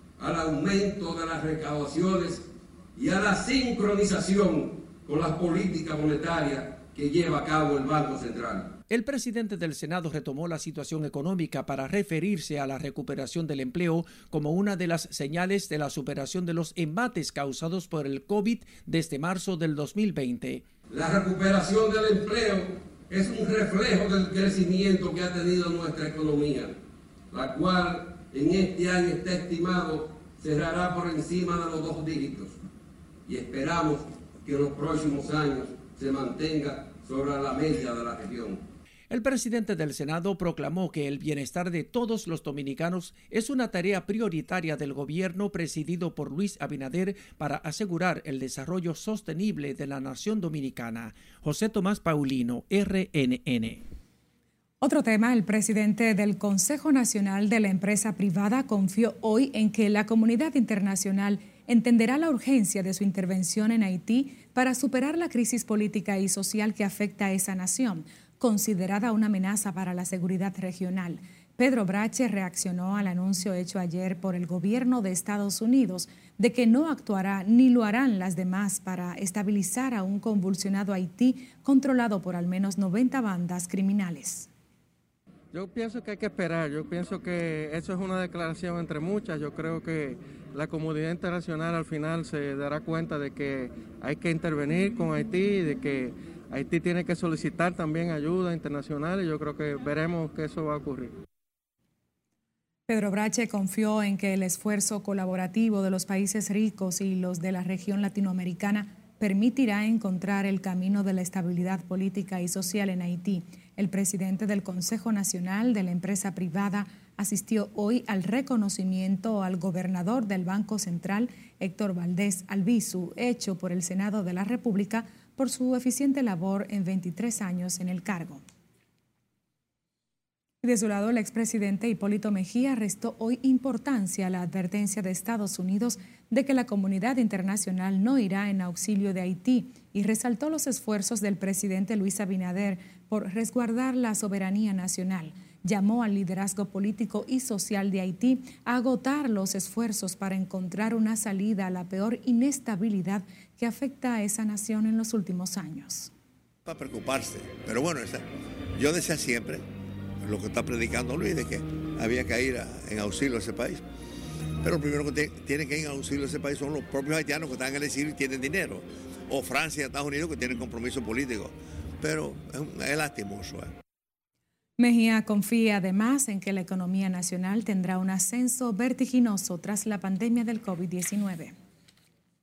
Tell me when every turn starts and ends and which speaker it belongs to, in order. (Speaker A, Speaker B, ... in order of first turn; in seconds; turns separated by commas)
Speaker A: 0.2-8.7, Speaker B: 8.9-20.7, Speaker A: 20.9-26.8, Speaker A: 27.3-32.6, Speaker A: 33.3-38.6, Speaker B: 39.1-53.9, Speaker C: 54.8-84.5, Speaker D: 85.5-101.2, Speaker C: 102.9-128.4, Speaker C: 130.6-156.1, Speaker E: 156.7-158.0, Speaker E: 158.8-159.4, Speaker E: 161.5-163.8, Speaker E: 164.7-168.7, Speaker E: 169.5-171.5, Speaker E: 172.1-172.7, Speaker C: 174.8-181.6